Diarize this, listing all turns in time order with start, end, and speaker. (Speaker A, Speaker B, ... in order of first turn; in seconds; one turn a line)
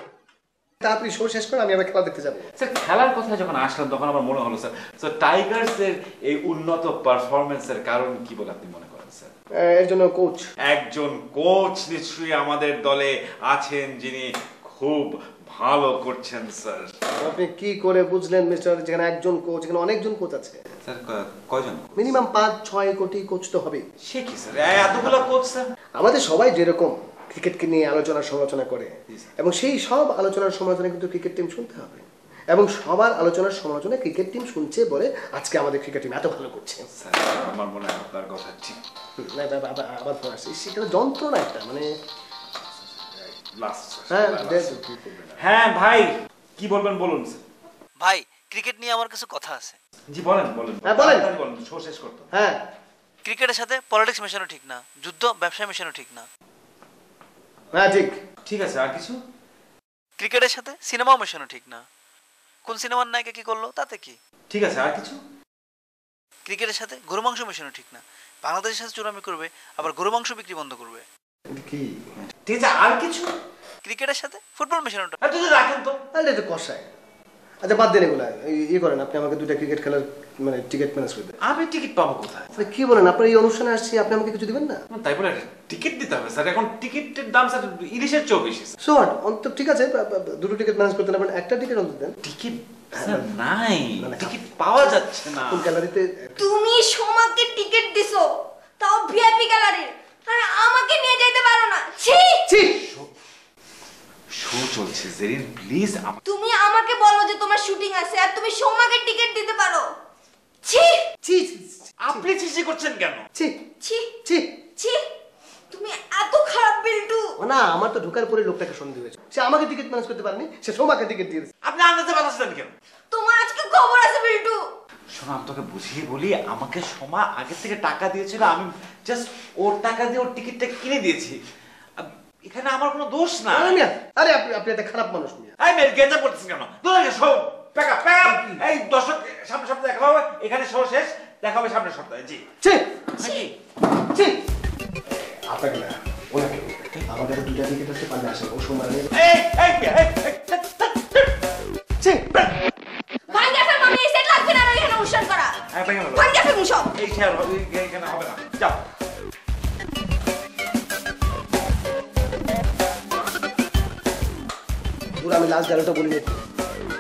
Speaker A: 0.8-2.5
Speaker B: 2.6-9.3
Speaker A: 9.6-10.5
Speaker B: 10.7-16.9
Speaker A: 17.2-20.6
Speaker B: 20.8-22.2
Speaker A: 22.0-23.9
Speaker B: 24.1-25.6
Speaker A: 26.0-36.9
Speaker B: 37.0-38.8
Speaker A: 39.2-41.9
Speaker B: 43.2-44.8
Speaker A: 44.1-45.4
Speaker B: 45.4-47.4
Speaker C: 48.0-49.8
Speaker B: 50.1-52.3
Speaker A: 50.9-51.3
Speaker A: 52.3-52.6
Speaker C: 53.2-56.3
Speaker A: 57.7-58.1
Speaker B: 58.5-59.2
Speaker C: 60.2-61.8
Speaker C: 62.7-64.2
Speaker B: 64.5-65.2
Speaker C: 66.5-71.1
Speaker A: 71.5-71.9
Speaker B: 72.4-73.3
Speaker C: 73.8-75.2
Speaker B: 75.2-76.0
Speaker A: 76.1-76.9
Speaker A: 77.6-81.3
Speaker B: 81.4-82.5
Speaker A: 82.6-84.8
Speaker B: 84.9-88.8
Speaker A: 88.8-92.2
Speaker B: 92.2-95.7
Speaker A: 92.9-93.3
Speaker A: 94.0-94.3
Speaker A: 95.5-96.5
Speaker D: 96.4-98.3
Speaker D: 98.8-102.5
Speaker A: 102.5-102.8
Speaker B: 102.8-103.1
Speaker B: 104.3-106.2
Speaker D: 106.2-109.8
Speaker D: 110.6-111.0
Speaker A: 111.2-112.2
Speaker B: 112.0-113.3
Speaker D: 113.8-114.1
Speaker D: 115.7-117.3
Speaker A: 117.4-121.5
Speaker B: 121.6-122.7
Speaker D: 123.1-124.6
Speaker B: 125.1-131.4
Speaker B: 132.0-133.8
Speaker A: 133.5-135.6
Speaker B: 135.6-142.5
Speaker A: 138.2-138.6
Speaker A: 142.6-143.1
Speaker B: 143.2-143.5
Speaker D: 143.2-143.4
Speaker A: 144.1-144.4
Speaker A: 145.1-149.1
Speaker B: 149.2-151.3
Speaker D: 153.3-155.6
Speaker B: 155.7-156.3
Speaker D: 156.1-156.9
Speaker B: 156.9-158.8
Speaker A: 165.2-166.4